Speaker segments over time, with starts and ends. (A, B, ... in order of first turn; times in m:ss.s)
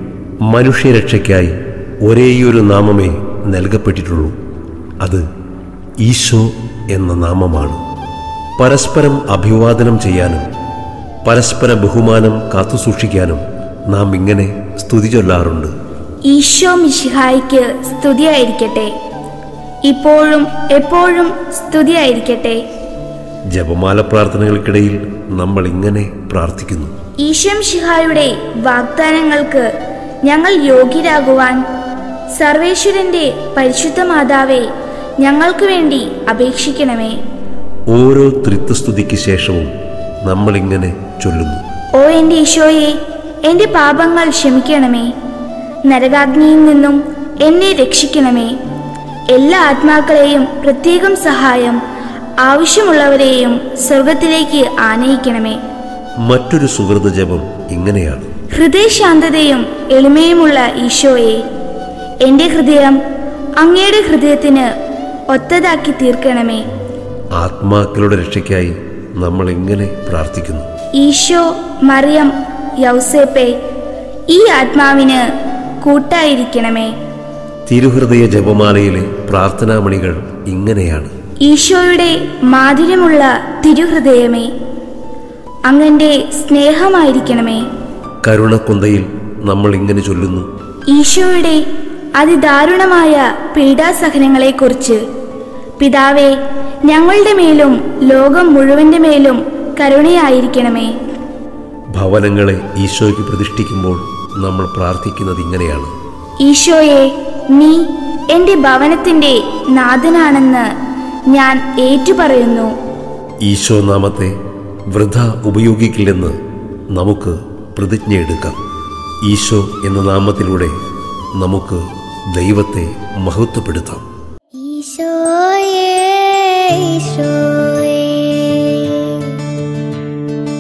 0:00.5-0:04.4 A
0:06.0-0:07.8 A
0:08.6-0:10.4 A
0:11.2-0:15.7 A
0:16.3-0:18.9 B
0:19.9-0:22.6 B
0:23.5-0:26.9 A
0:27.2-0:29.7 B
0:30.2-0:31.6 B
0:32.4-0:34.7 B
0:35.2-0:37.2 B
0:37.9-0:39.7 A
0:40.2-0:41.6 A
0:42.0-0:45.1 B
0:45.9-0:48.6 B
0:49.3-0:51.8 B
0:52.4-0:55.6 B
0:56.3-0:58.3 A
0:58.5-1:01.4 B
1:02.2-1:03.0 B
1:03.6-1:04.7 B
1:05.3-1:06.6 B
1:07.4-1:10.7 A
1:11.0-1:13.6 B
1:14.3-1:15.2 B
1:15.8-1:16.9 B
1:17.7-1:21.1 A
1:21.5-1:24.5 B
1:25.7-1:27.6 B
1:28.2-1:30.5 A
1:30.9-1:31.6 B
1:32.2-1:35.0 B
1:35.8-1:36.4 B
1:36.9-1:40.9 B
1:42.0-1:45.9 A
1:46.4-1:50.7 B
1:51.3-1:52.7 B
1:53.4-1:54.4 A
1:54.9-1:56.4 A
1:56.9-1:58.6 A
1:59.2-2:00.8 A
2:01.4-2:04.0 A
2:04.6-2:09.4 C